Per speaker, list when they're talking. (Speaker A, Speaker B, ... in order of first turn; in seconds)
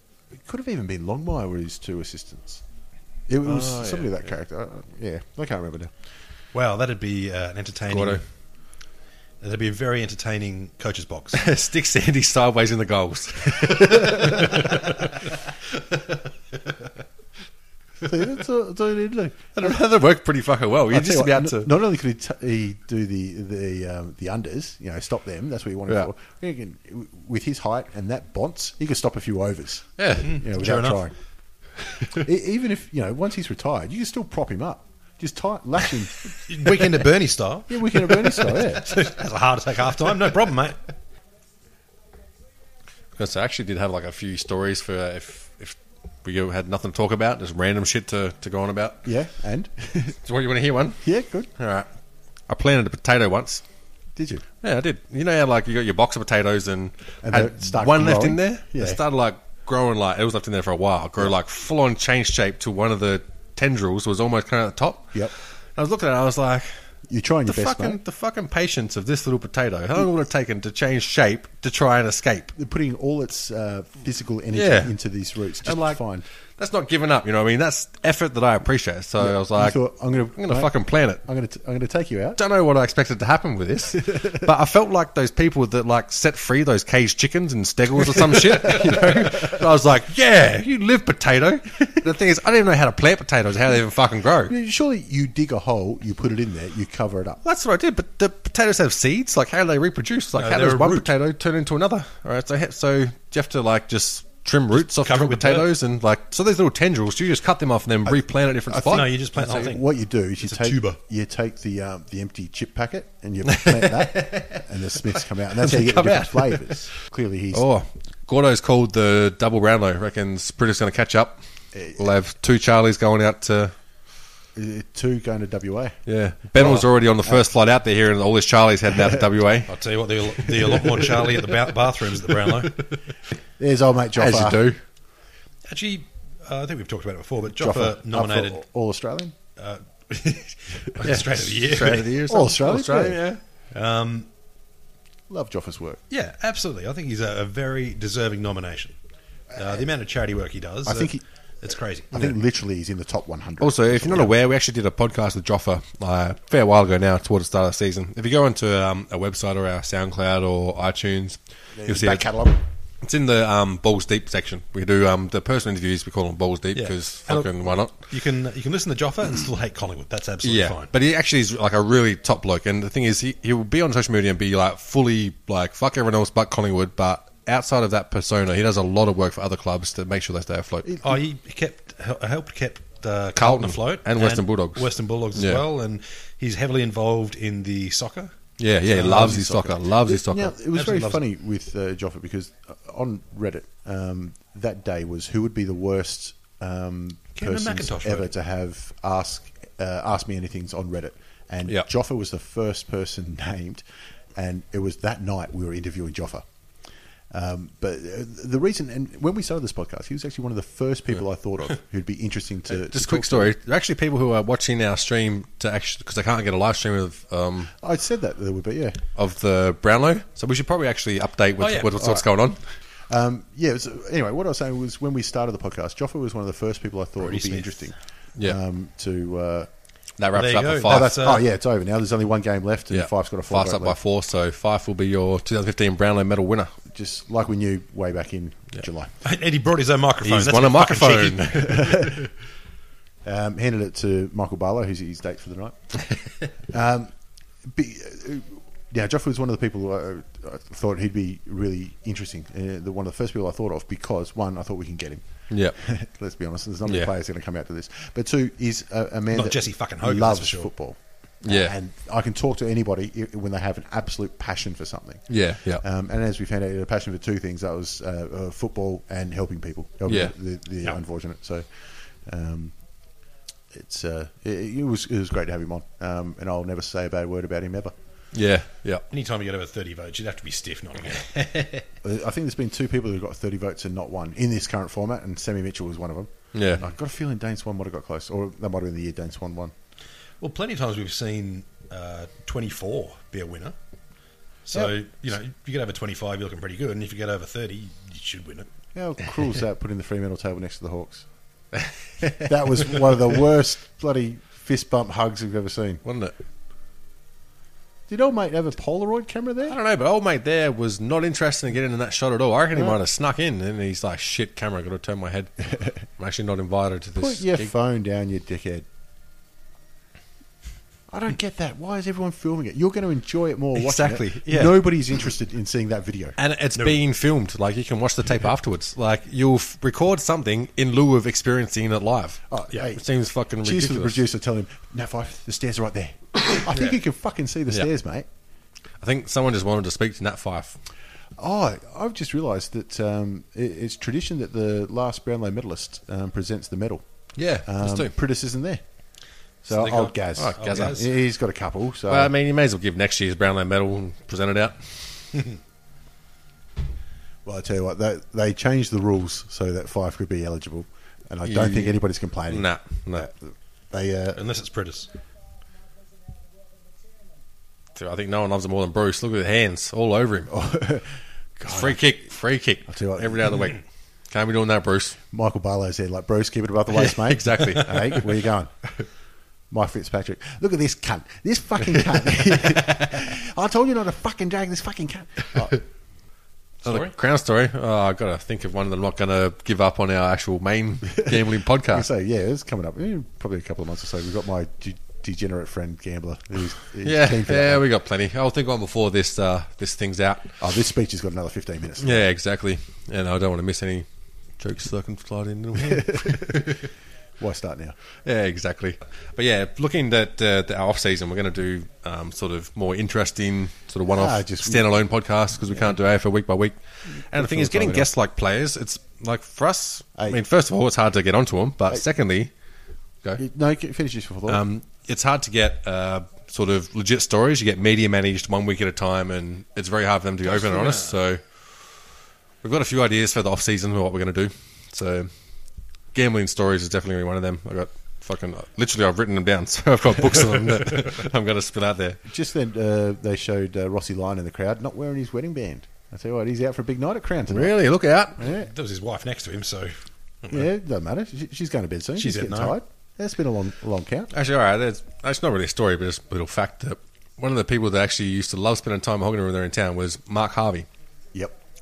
Speaker A: 0.4-2.6, 3.3-5.9, 18.0-19.8, 20.9-31.1, 32.1-36.8, 37.7-39.1, 49.0-50.2, 51.0-51.5, 54.1-54.4, 57.2-59.0, 67.1-68.0, 72.5-76.2, 79.2-82.4, 88.6-89.0, 94.5-97.4, 108.7-117.7, 121.7-122.0, 124.5-126.0, 126.5-127.4, 128.9-129.2, 133.6-134.7, 137.5-139.3, 142.1-143.3, 145.3-146.0, 150.8-151.2, 152.1-154.3, 161.8-162.6, 180.9-181.2, 188.9-206.4, 207.3-213.5, 217.8-219.0, 222.0-222.3, 223.1-229.7, 230.8-234.0, 236.9-239.1, 241.6-242.3, 243.2-246.0, 246.7-247.1, 247.6-272.8, 273.7-277.9, 282.0-289.7, 294.7-295.0, 298.9-301.2, 302.2-306.0, 308.1-309.8, 317.1-318.9, 321.1-326.4, 332.5-333.0, 333.6-338.3, 341.4-347.0, 347.6-348.8, 349.6-352.3, 357.4-364.4, 370.5-372.0, 372.9-373.7, 375.3-378.9, 379.7-385.8, 391.9-397.8, 400.6-402.3, 405.8-406.8, 407.4-408.0, 414.1-415.0, 415.6-415.9, 417.1-418.1, 420.1-420.4, 423.4-424.6, 442.2-447.8, 448.4-448.7, 450.5-454.3
Speaker B: 3.4-4.2, 7.9-8.2, 11.4-15.3, 19.6-21.9, 30.0-30.4, 43.1-49.0, 50.2-51.9, 52.5-53.6, 54.6-66.8, 67.5-72.5, 74.5-75.0, 75.6-76.0, 76.6-81.2, 82.4-94.5, 97.4-109.7, 113.5-114.6, 115.6-116.9, 117.5-123.7, 126.0-129.7, 130.7-131.4, 134.2-134.8, 141.0-143.4, 153.6-162.4, 163.0-168.0, 170.4-180.9, 183.3-185.6, 188.6-190.5, 212.7-217.7, 219.2-222.6, 230.2-231.2, 232.9-236.7, 240.2-242.3, 255.5-255.7, 256.9-257.1, 261.4-261.7, 265.3-265.8, 270.1-270.3, 278.3-279.0, 286.5-286.8, 306.0-306.3, 309.7-317.7, 323.7-325.0, 326.4-334.2, 339.0-340.8, 347.4-348.1, 350.4-351.1, 352.1-355.4, 361.4-363.3, 367.9-370.5, 371.7-375.2, 376.9-378.3, 386.8-392.1, 397.0-400.6, 402.0-404.0, 404.6-406.9, 408.2-416.8, 417.3-422.5, 424.5-432.0, 432.6-435.3, 436.1-442.2, 447.5-448.4, 454.3-460.9
Speaker C: 6.5-8.2, 9.4-11.4, 30.2-31.0, 36.5-40.8, 100.3-101.1, 104.7-105.7, 108.7-111.0, 129.7-132.8, 135.7-138.6, 139.6-142.1, 143.7-144.3, 146.1-148.9, 149.5-152.2, 166.7-170.9, 181.0-188.3, 190.7-191.2, 197.3-198.3, 221.6-222.0, 227.2-227.9, 230.3-231.4, 239.2-241.7, 259.3-260.7, 279.1-281.9, 290.4-293.8, 294.6-298.7, 349.7-351.1, 364.3-365.1, 386.8-387.1, 430.4-431.2, 448.4-450.6, 452.1-452.8